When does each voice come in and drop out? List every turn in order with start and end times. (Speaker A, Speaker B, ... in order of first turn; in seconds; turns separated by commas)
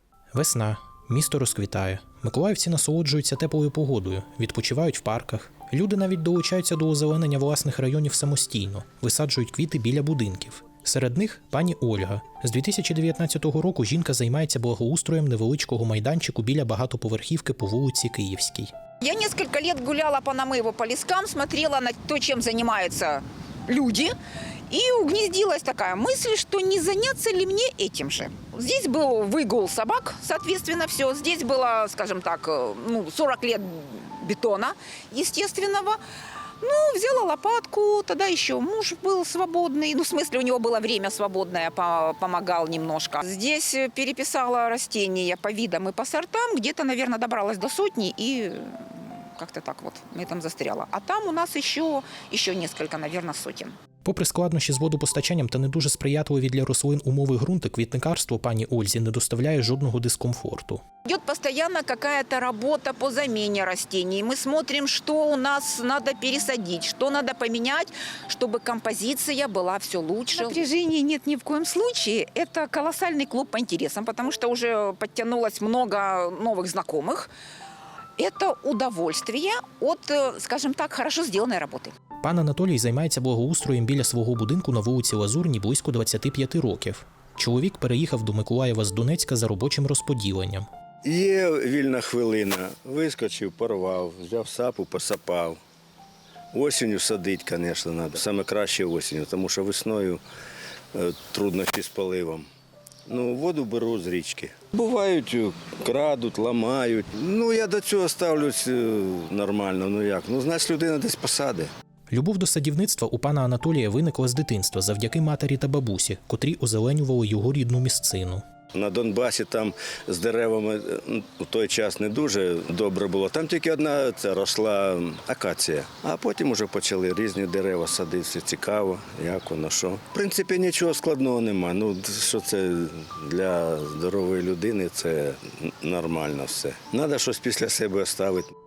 Speaker A: 0.3-18.7, Speaker B: 19.0-24.1, Speaker B: 24.7-36.0, Speaker B: 36.6-53.7, Speaker A: 54.0-60.8, Speaker B: 61.0-77.3, Speaker B: 78.2-81.9, Speaker A: 82.2-90.7, Speaker C: 91.0-95.6, Speaker C: 96.5-100.2, Speaker C: 100.9-102.5, Speaker C: 103.1-111.7, Speaker A: 112.1-118.4, Speaker C: 118.7-138.5